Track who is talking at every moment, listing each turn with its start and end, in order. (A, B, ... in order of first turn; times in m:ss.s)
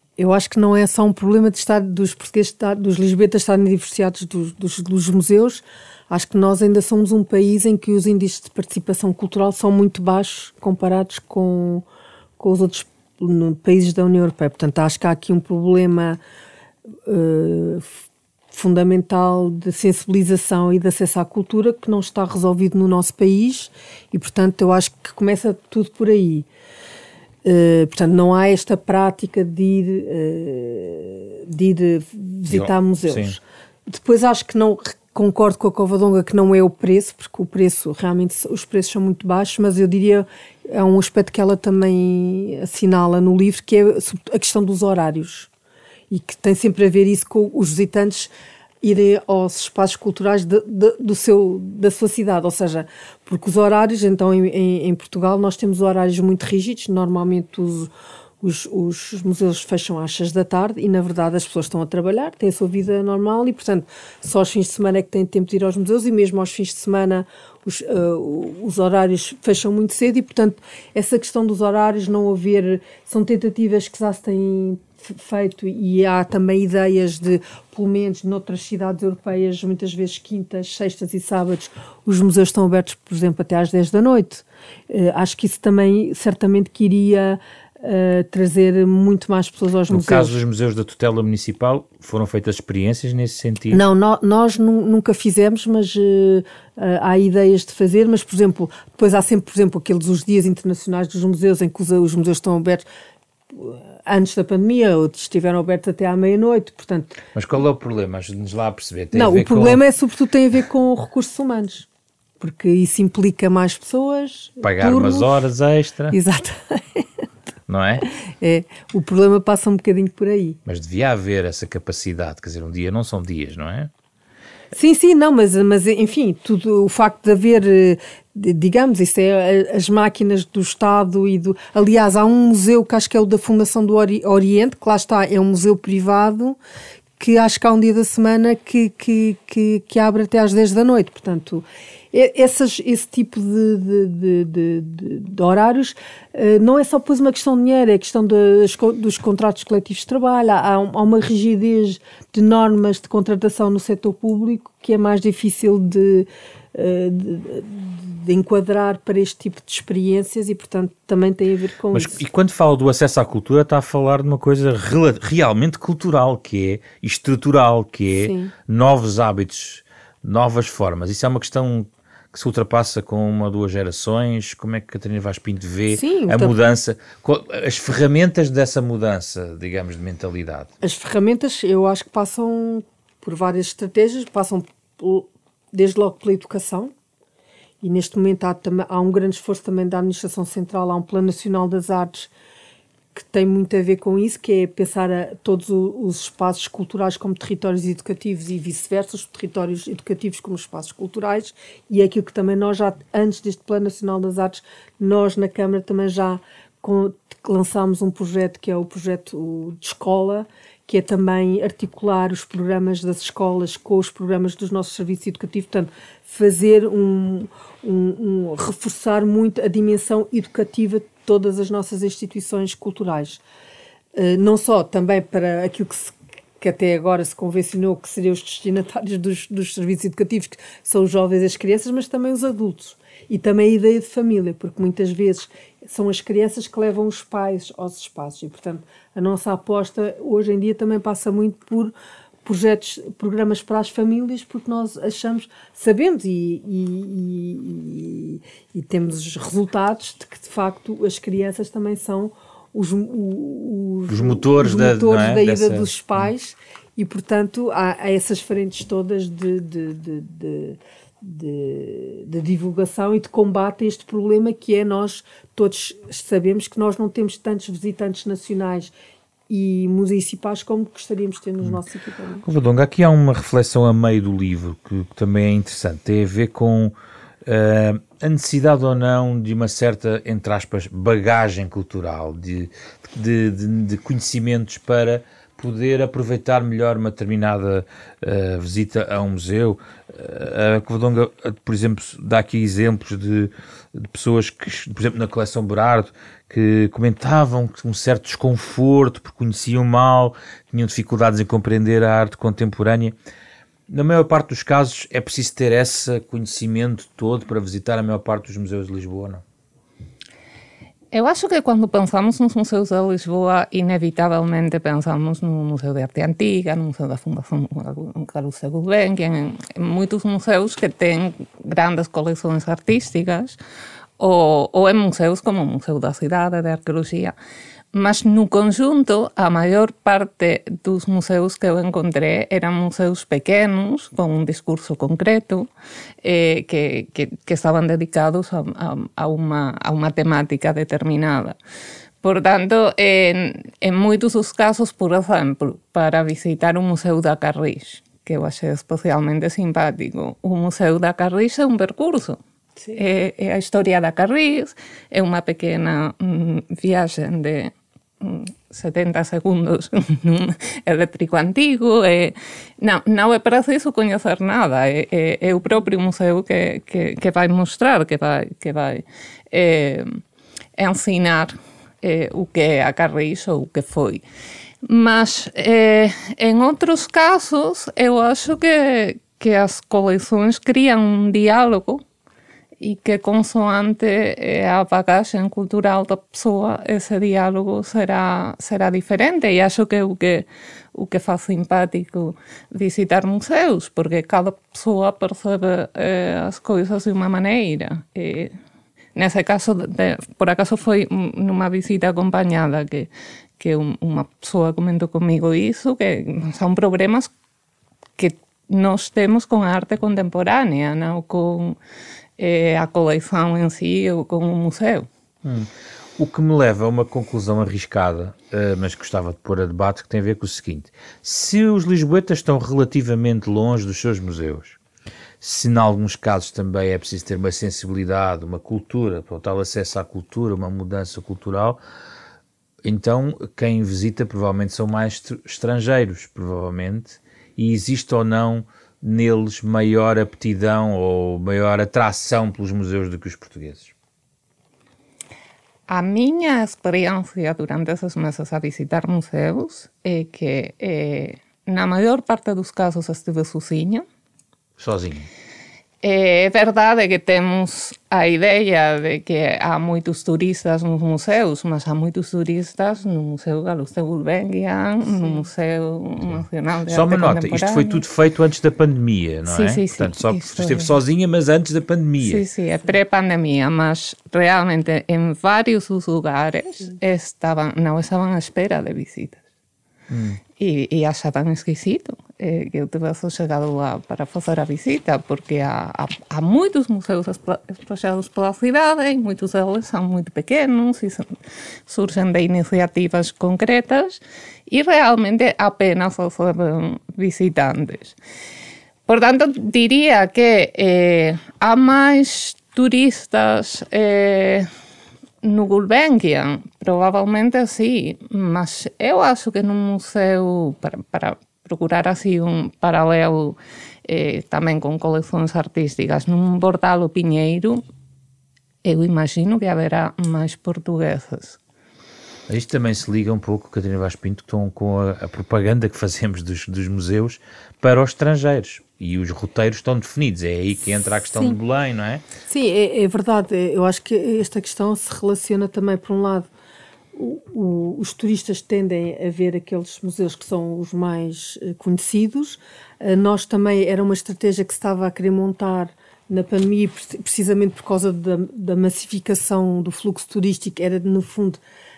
0:00.2-0:11.8 A
0:12.4-0:16.2 A
0:17.1-0:17.9 A
0:18.5-0:26.5 A
0:27.4-0:45.5 A
0:32.5-0:33.4 B
0:46.1-0:48.3 A
0:48.8-0:57.9 A
0:58.4-1:30.4 A
1:29.9-1:33.8 B
1:33.7-1:42.8 A
1:43.5-1:47.2 A
1:47.4-1:49.8 B
1:49.1-1:51.9 A
1:52.4-1:55.4 A
1:54.6-1:56.2 B
1:56.1-1:57.0 A
1:57.7-1:58.1 B
1:58.2-2:00.6 A
2:00.7-2:03.9 B
2:04.7-2:16.6 A
2:17.2-2:42.2 A
2:41.9-3:00.7 B
2:48.1-2:48.5 A
2:55.9-2:56.6 A
3:00.8-3:06.9 A
3:07.8-3:12.3 A
3:13.2-3:43.4 A
3:44.2-4:01.9 A
4:02.4-4:28.9 A
4:14.1-4:15.9 B
4:29.5-4:32.4 A
4:32.4-4:36.9 B
4:37.4-5:03.2 B
5:03.9-5:09.4 B
5:11.1-5:23.6 C
5:24.2-5:27.4 C
5:27.9-5:35.7 C
5:36.2-5:41.6 C
5:42.2-6:10.2 C
6:10.8-6:14.2 C
6:14.8-6:22.0 C
6:22.8-6:38.5 C
6:39.2-6:47.3 C
6:48.2-6:51.8 C
6:52.4-6:55.1 C
6:55.4-7:04.8 B
7:05.4-7:11.8 B
7:12.8-7:23.9 B
7:25.9-7:34.0 C
7:34.8-7:35.3 B
7:36.0-7:48.0 C
7:46.9-7:52.4 B
7:49.4-7:51.0 C
7:52.2-7:59.4 C
8:00.1-8:00.4 B
8:00.6-8:11.4 C
8:11.9-8:18.2 C
8:19.1-8:24.7 C
8:25.4-8:37.8 C
8:38.8-8:41.6 C
8:42.5-8:52.2 B
8:51.3-8:51.6 A
8:52.5-8:56.5 A
8:57.1-9:11.6 A